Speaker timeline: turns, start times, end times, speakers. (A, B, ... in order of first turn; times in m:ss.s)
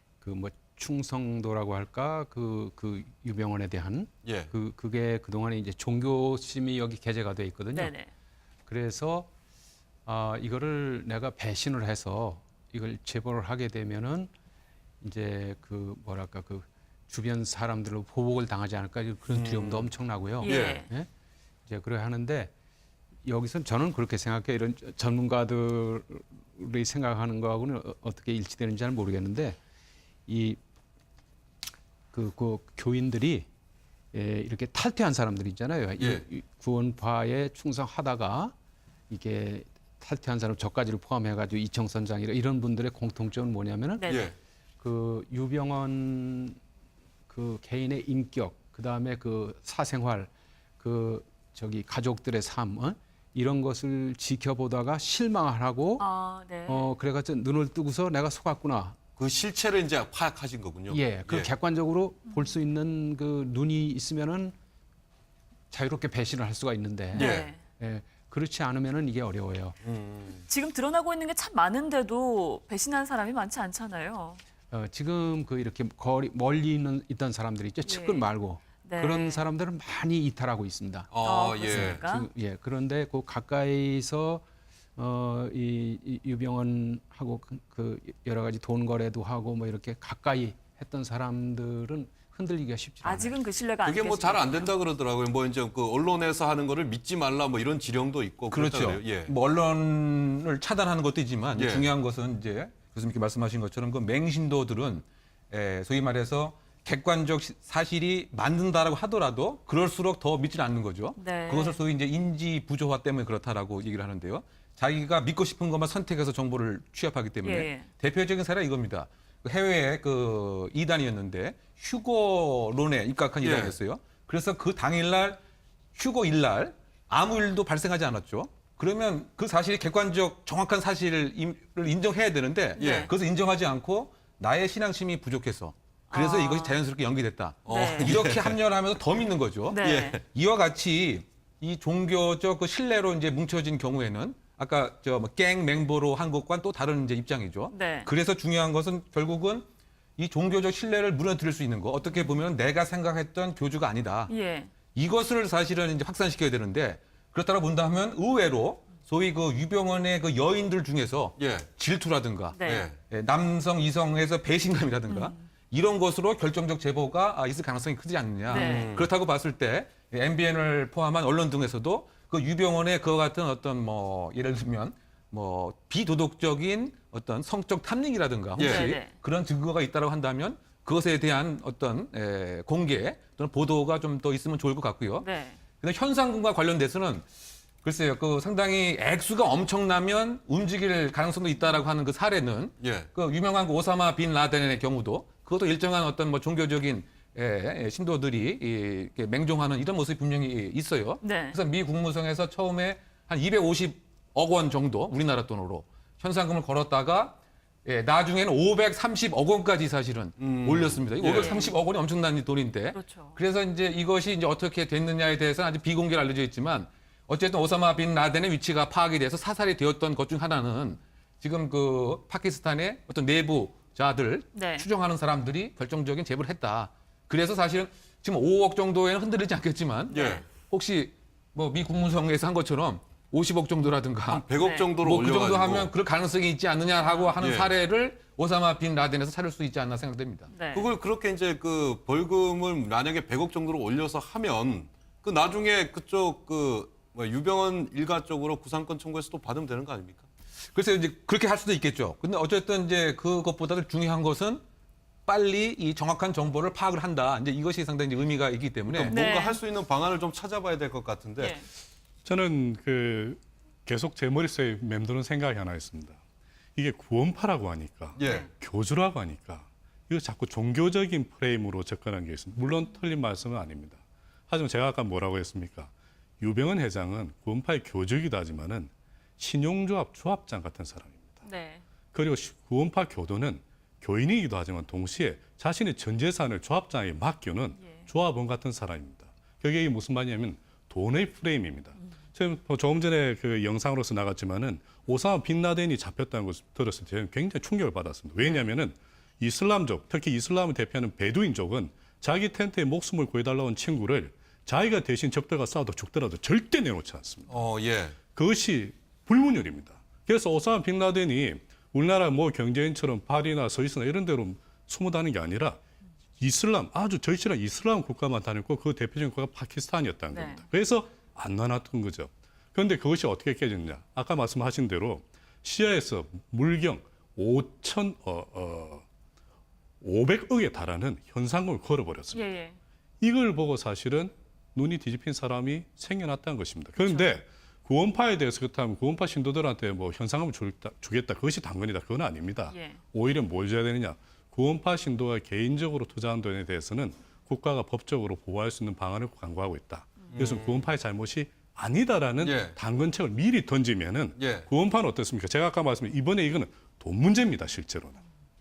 0:00.2-0:08.0 A
0:04.2-0:04.5 B
0:07.7-0:08.1 C
0:08.7-0:09.3 A
0:10.1-0:14.3 A
0:15.0-0:21.1 A
0:19.3-0:19.9 B
0:20.4-0:20.9 C
0:20.4-0:20.8 B
0:21.7-0:22.5 A
0:23.2-0:29.6 A
0:30.3-0:30.6 A
0:32.1-0:33.5 A
0:34.1-0:38.5 A
0:36.0-0:36.2 B
0:39.1-0:44.2 A
0:44.0-0:44.3 C
0:44.1-0:44.3 B
0:44.8-0:46.6 A
0:47.3-0:56.1 A
0:56.0-0:56.9 C
0:56.7-0:59.1 A
0:59.2-1:01.5 B
1:00.9-1:04.5 A
1:05.7-1:09.8 A
1:07.1-1:07.6 C
1:07.1-1:07.6 B
1:09.8-1:10.4 B
1:10.5-1:14.4 C
1:14.7-1:21.1 A
1:17.8-1:18.3 C
1:18.8-1:19.4 C
1:21.1-1:22.0 B
1:21.2-1:22.3 C
1:21.6-1:24.4 A
1:25.0-1:33.4 A
1:33.0-1:34.7 C
1:33.8-1:39.3 B
1:38.5-2:05.4 D
1:41.6-1:41.9 B
1:51.2-1:51.8 C
1:57.4-1:57.9 C
2:03.4-2:03.8 B
2:06.0-2:34.3 D
2:12.8-2:13.1 C
2:12.8-2:13.1 B
2:16.1-2:16.8 C
2:17.7-2:18.6 B
2:17.7-2:18.1 C
2:19.7-2:20.2 C
2:19.8-2:20.2 B
2:27.7-2:28.1 C
2:34.3-2:34.7 C
2:34.9-3:05.3 D
2:41.4-2:41.7 B
2:42.5-2:42.9 C
2:42.6-2:43.0 B
2:45.1-2:45.4 C
2:48.5-2:48.9 C
2:48.5-2:49.1 B
2:58.6-2:59.0 B
2:58.6-2:59.1 C
3:05.2-3:05.6 C
3:05.8-3:07.3 D
3:07.8-3:54.4 D
3:12.8-3:13.1 B
3:21.2-3:21.6 C
3:30.4-3:31.6 B
3:31.4-3:31.7 C
3:32.9-3:33.4 C
3:44.5-3:44.9 C
3:50.1-3:50.4 C
3:50.1-3:50.4 B
3:54.3-3:55.9 B
3:54.6-3:54.9 C
3:55.0-4:00.5 D
3:57.4-3:57.8 B
4:00.5-4:00.9 C
4:00.7-4:10.2 B
4:10.7-4:14.6 D
4:15.3-4:19.2 D
4:18.9-4:21.6 B
4:19.1-4:19.6 C
4:21.4-4:21.7 C
4:22.2-4:26.2 E
4:26.8-4:41.4 E
4:28.2-4:28.5 B
4:41.4-4:41.8 C
4:42.1-5:07.5 E
4:47.8-4:48.1 C
5:07.5-5:08.2 B
5:08.3-5:15.8 E
5:16.4-5:29.0 E
5:20.3-5:20.6 C
5:30.0-5:32.4 E
5:32.3-5:32.8 C
5:33.2-5:58.2 E
5:37.0-5:37.4 C
5:42.7-5:43.0 C
5:50.3-5:50.9 B
5:52.4-5:52.8 B
5:54.4-5:54.7 B